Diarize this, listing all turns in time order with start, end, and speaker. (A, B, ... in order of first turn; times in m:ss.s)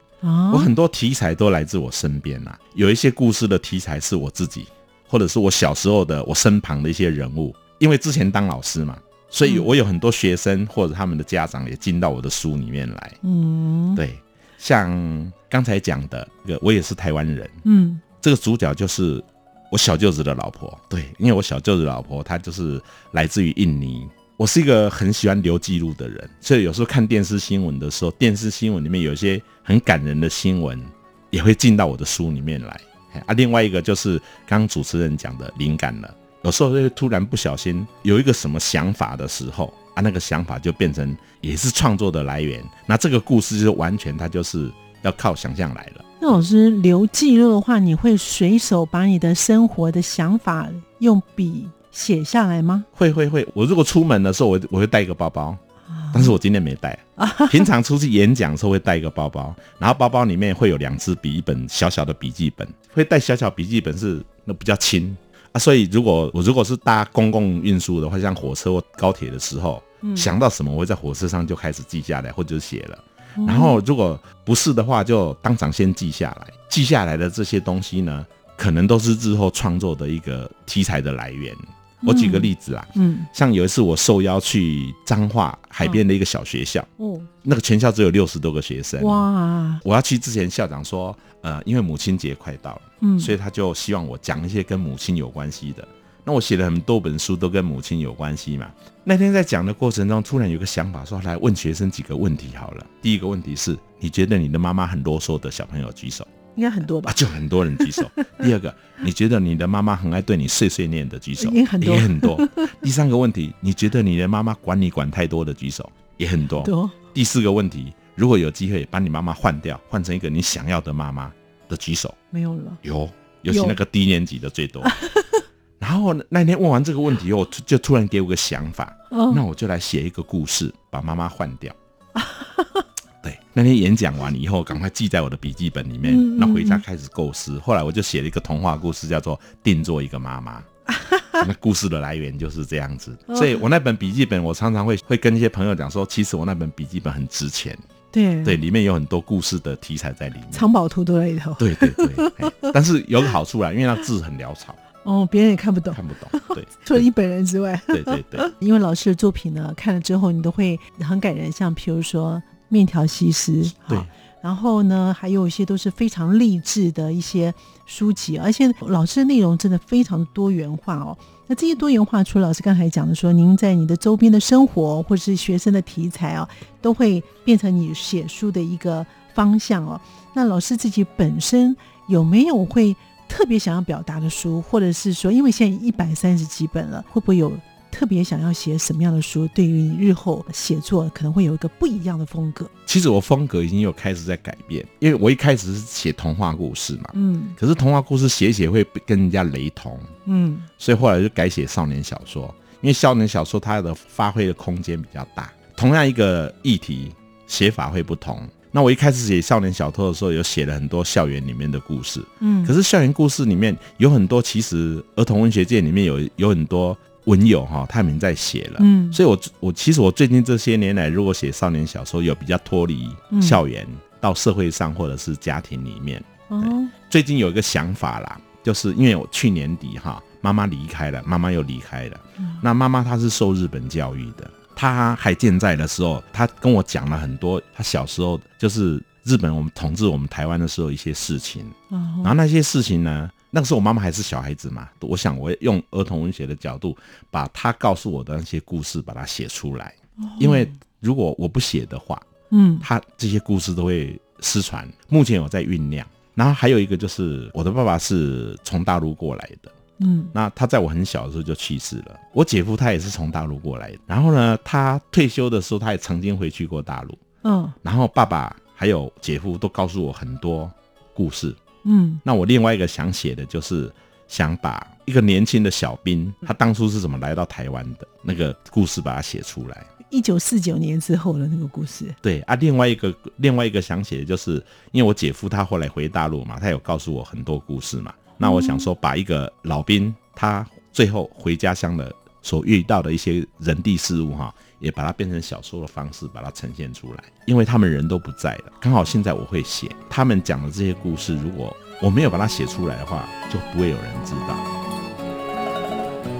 0:00.2-0:00.7 A
0:00.5-0:13.2 B
0:13.2-0:14.0 A
0:13.9-0:17.6 B
0:17.6-0:18.0 A
0:18.2-0:46.0 B
0:46.2-0:52.9 A
0:52.9-0:55.6 B
0:55.9-0:56.4 A
0:56.1-1:26.9 B
0:57.2-0:57.7 A
1:10.0-1:10.3 A
1:13.4-1:13.8 A
1:22.0-1:23.3 A
1:27.0-1:27.3 A
1:27.4-1:29.3 B
1:29.0-1:29.8 A
1:29.8-1:46.3 B
1:33.0-1:33.3 A
1:46.6-1:47.2 A
1:47.0-2:02.2 B
1:47.9-1:48.3 A
1:51.4-1:52.7 A
1:56.6-1:57.0 A
2:02.3-2:02.8 A
2:02.8-2:05.0 B
2:03.5-2:03.8 A
2:04.8-2:05.4 A
2:05.8-2:11.8 B
2:09.1-2:09.4 A
2:12.2-2:12.8 A
2:13.2-2:20.7 B
2:16.0-2:16.8 A
2:21.0-2:21.4 A
2:21.4-2:27.8 B
2:28.1-2:28.6 A
2:28.4-2:30.7 B
2:30.5-2:32.7 A
2:31.6-2:34.8 B
2:35.0-3:12.7 A
2:35.9-2:37.0 B
2:37.9-2:38.5 B
3:12.9-3:20.1 B
3:17.1-3:17.6 A
3:20.2-3:20.7 A
3:20.8-4:12.3 B
3:32.4-3:32.7 A
3:38.8-3:39.2 A
3:43.3-3:43.6 A
3:46.5-3:46.9 A
4:01.9-4:02.3 A
4:10.2-4:10.8 A
4:12.5-4:12.8 A
4:12.8-4:19.7 B
4:20.0-4:20.3 A
4:20.3-4:27.2 B
4:27.4-4:27.8 A
4:27.8-4:31.6 B
4:31.8-4:32.2 A
4:32.2-4:39.9 B
4:40.1-4:42.2 A
4:42.2-5:04.6 B
4:48.4-4:48.9 A